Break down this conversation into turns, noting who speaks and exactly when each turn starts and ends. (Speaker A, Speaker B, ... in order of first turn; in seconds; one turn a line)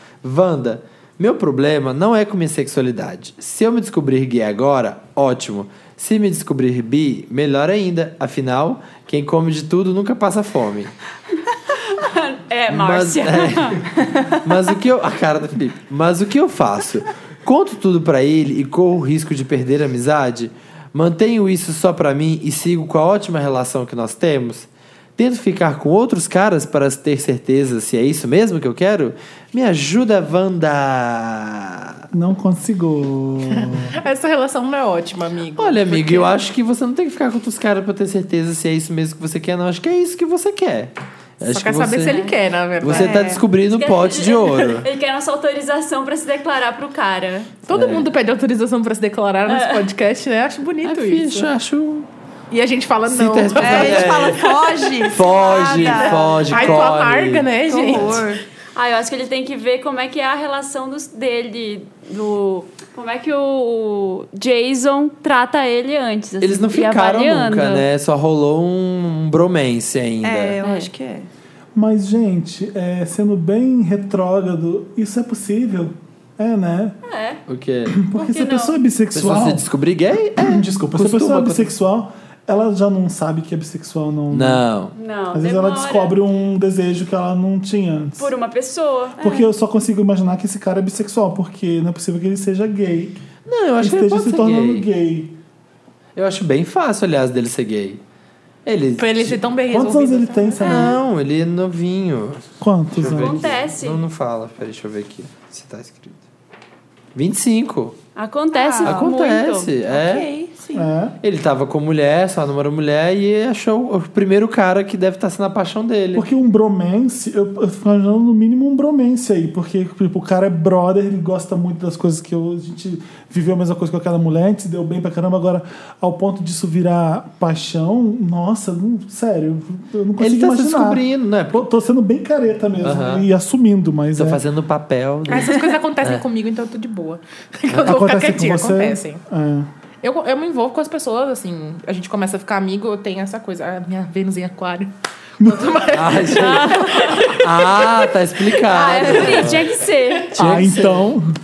Speaker A: 0.2-10.9
Speaker B: 11.8-13.9
Speaker A: 12.7-32.0
Speaker C: 32.1-34.0
Speaker D: 33.5-36.3
Speaker A: 35.6-42.2
Speaker D: 41.4-43.1
Speaker B: 42.0-42.4
Speaker A: 42.8-44.9
Speaker E: 42.9-43.4
Speaker B: 43.7-47.5
Speaker D: 47.6-51.5
Speaker A: 47.7-48.1
Speaker B: 49.5-49.8
Speaker A: 50.9-52.1
Speaker D: 52.5-54.4
Speaker A: 53.1-58.2
Speaker E: 53.6-56.9
Speaker B: 55.4-56.1
Speaker D: 56.1-58.4
Speaker E: 57.7-58.4
Speaker B: 58.7-67.9
Speaker A: 66.4-70.6
Speaker E: 70.2-71.3
Speaker B: 70.6-70.9
Speaker C: 71.7-77.0
Speaker B: 77.0-77.4
Speaker A: 77.5-77.9
Speaker C: 77.9-79.7
Speaker B: 78.1-78.8
Speaker A: 79.1-81.7
Speaker C: 80.4-84.6
Speaker A: 84.3-84.9
Speaker B: 84.9-86.2
Speaker C: 85.3-88.3
Speaker B: 88.2-89.3
Speaker C: 89.2-93.2
Speaker A: 93.5-94.9
Speaker C: 93.8-95.3
Speaker A: 96.2-98.0
Speaker A: 98.6-99.4
Speaker D: 99.0-100.6
Speaker C: 99.7-101.0
Speaker A: 100.6-106.2
Speaker C: 102.6-103.4
Speaker B: 103.1-104.0
Speaker A: 107.1-108.0
Speaker B: 108.2-109.7
Speaker E: 108.5-109.0
Speaker A: 108.8-110.3
Speaker E: 109.9-110.9
Speaker C: 110.7-111.2
Speaker A: 111.2-116.3
Speaker C: 116.1-134.4
Speaker A: 130.2-131.7
Speaker A: 132.8-133.2
Speaker A: 134.2-136.2
Speaker D: 135.3-139.2
Speaker A: 137.7-138.0
Speaker C: 137.8-139.7
Speaker D: 140.0-147.7
Speaker C: 145.4-145.8
Speaker A: 145.9-149.7
Speaker B: 146.3-147.9
Speaker B: 148.6-150.4
Speaker D: 148.8-150.2
Speaker A: 150.3-151.2
Speaker C: 150.4-151.3